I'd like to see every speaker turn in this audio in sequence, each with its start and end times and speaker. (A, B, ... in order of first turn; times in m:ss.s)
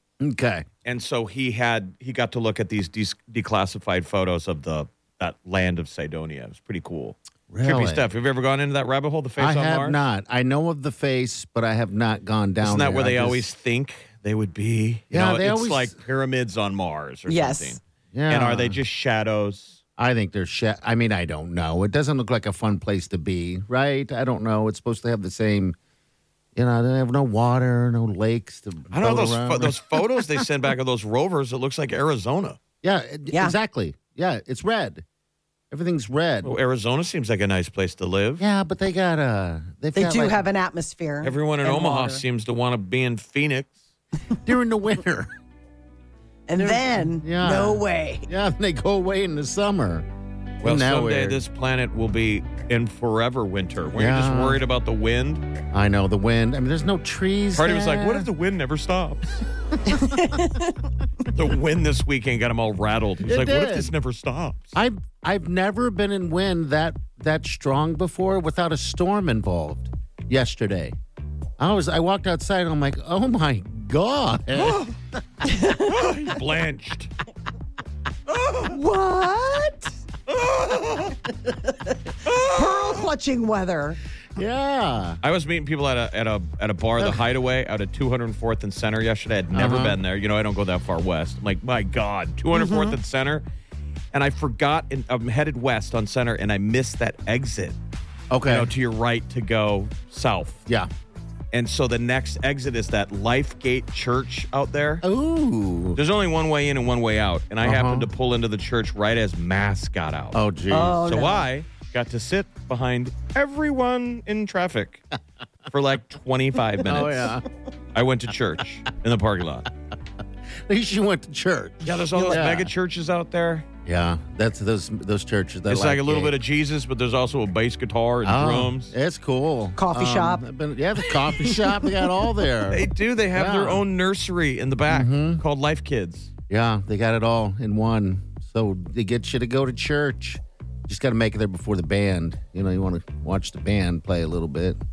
0:00.2-0:00.7 A
0:00.8-0:10.0 B
0:07.5-0:08.0 A
0:09.4-0:13.5 A
0:12.6-0:19.8 B
0:15.1-0:16.0 A
0:17.3-0:17.8 C
0:18.1-0:18.8 A
0:20.0-0:25.8 A
0:26.6-0:30.4 A
0:28.9-0:32.6 B
0:32.8-0:35.0 A
0:33.3-0:33.6 C
0:35.7-0:36.6 A
0:36.4-0:38.4 B
0:38.4-0:40.4 A
0:40.0-0:42.2 C
0:41.2-0:43.8 B
0:44.4-0:45.3 A
0:46.5-0:48.3 C
0:46.6-0:50.1 A
0:50.6-0:51.4 A
0:50.6-0:55.4 B
0:53.9-0:54.6 A
0:55.7-0:58.3 A
0:57.6-0:59.4 B
0:59.9-1:00.8 C
1:01.3-1:04.7 B
1:03.2-1:03.9 A
1:04.8-1:11.0 A
1:11.6-1:14.9 A
1:14.6-1:14.9 B
1:15.4-1:16.0 C
1:15.8-1:17.1 B
1:18.3-1:18.7 B
1:18.7-1:19.9 C
1:20.3-1:21.2 B
1:22.2-1:23.0 B
1:22.3-1:24.0 C
1:24.4-1:25.2 A
1:25.2-1:33.4 B
1:29.5-1:30.0 A
1:32.5-1:33.0 C
1:34.1-1:37.8 B
1:38.3-1:38.7 A
1:38.5-1:40.6 B
1:41.5-1:45.0 B
1:45.0-1:46.0 A
1:46.0-1:50.4 B
1:47.6-1:48.1 A
1:50.3-1:51.0 A
1:50.7-1:51.5 C
1:51.0-1:55.0 B
1:55.7-1:57.4 B
1:56.8-1:57.4 A
1:57.9-1:59.7 B
2:00.7-2:02.7 A
2:01.8-2:03.7 B
2:02.2-2:02.4 C
2:03.8-2:06.3 A
2:05.7-2:08.9 B
2:08.2-2:13.8 A
2:09.8-2:10.4 C
2:11.4-2:11.9 C
2:12.7-2:16.3 B
2:14.9-2:15.4 A
2:16.5-2:24.8 A